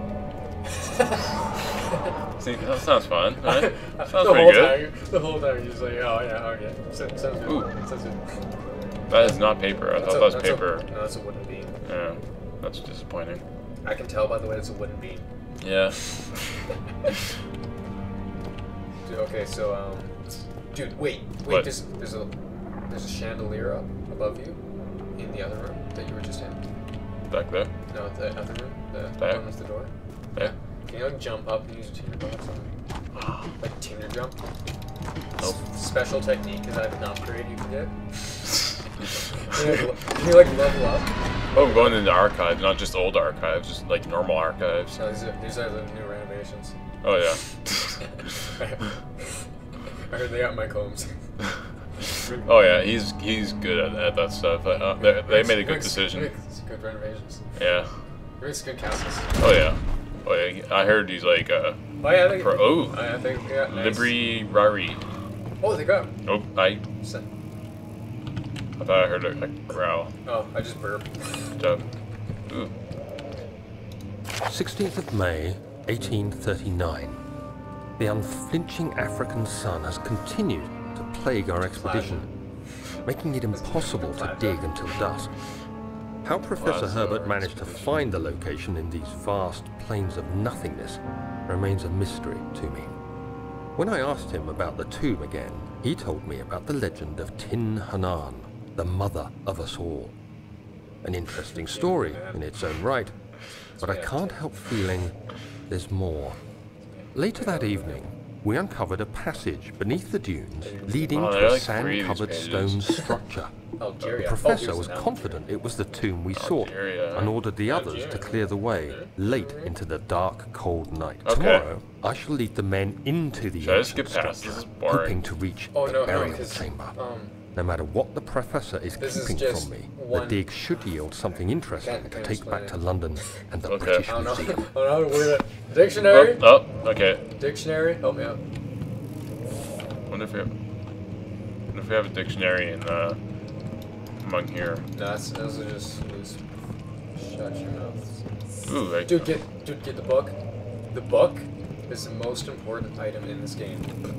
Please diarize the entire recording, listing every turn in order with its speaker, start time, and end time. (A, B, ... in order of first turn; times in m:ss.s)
0:00.7-0:02.1 A
0:02.4-0:04.8 B
0:03.4-0:08.4 A
0:09.1-0:10.8 B
0:09.1-0:11.8 A
0:11.8-0:13.4 B
0:13.8-0:15.3 A
0:15.6-0:16.0 B
0:19.0-0:20.2 A
0:20.7-0:22.3 A
0:22.9-0:24.6 A
0:25.1-0:26.6 A
0:27.3-0:27.7 B
0:27.9-0:32.7 A
0:29.2-0:29.4 B
0:33.1-0:33.5 B
0:33.6-0:34.4 A
0:35.4-0:37.9 A
0:39.4-0:42.0 A
0:41.5-0:45.0 B
0:44.9-0:46.8 A
0:47.0-0:48.0 B
0:48.0-0:49.5 A
0:50.1-0:51.1 A
0:52.1-0:52.6 A
0:52.3-0:56.3 B
0:54.8-0:57.4 A
0:57.6-0:57.9 B
0:58.4-0:59.3 A
0:59.4-1:03.0 B
1:02.0-1:04.1 A
1:03.7-1:05.0 B
1:05.6-1:06.1 A
1:06.2-1:06.8 B
1:07.0-1:07.3 A
1:08.8-1:10.1 B
1:10.2-1:11.5 A
1:11.6-1:11.9 B
1:12.5-1:12.7 B
1:14.4-1:17.2 C
1:18.0-1:22.3 C
1:21.7-1:22.3 A
1:23.0-1:25.3 C
1:23.5-1:24.9 A
1:26.2-1:32.9 C
1:26.5-1:28.0 B
1:33.8-1:40.1 C
1:41.0-1:43.1 C
1:41.5-1:42.5 A
1:43.8-1:44.4 A
1:43.8-1:45.2 C
1:45.7-1:46.4 C
1:46.9-1:48.0 A
1:47.1-1:53.5 C
1:50.6-1:51.2 A
1:51.1-1:52.8 B
1:53.8-1:55.4 A
1:54.1-2:07.0 C
1:56.3-1:57.4 B
1:57.6-1:59.7 A
2:01.2-2:01.6 B
2:03.6-2:05.2 B
2:05.7-2:07.3 A
2:07.5-2:14.7 C
2:09.0-2:10.4 A
2:11.8-2:13.3 A
2:13.7-2:14.0 B
2:14.0-2:16.6 A
2:16.1-2:17.2 B
2:17.4-2:18.4 A
2:20.1-2:20.5 B
2:21.7-2:23.2 B
2:24.2-2:24.8 B
2:24.9-2:26.4 A
2:27.1-2:28.2 A
2:28.7-2:29.3 B
2:29.0-2:30.4 A
2:30.9-2:33.9 A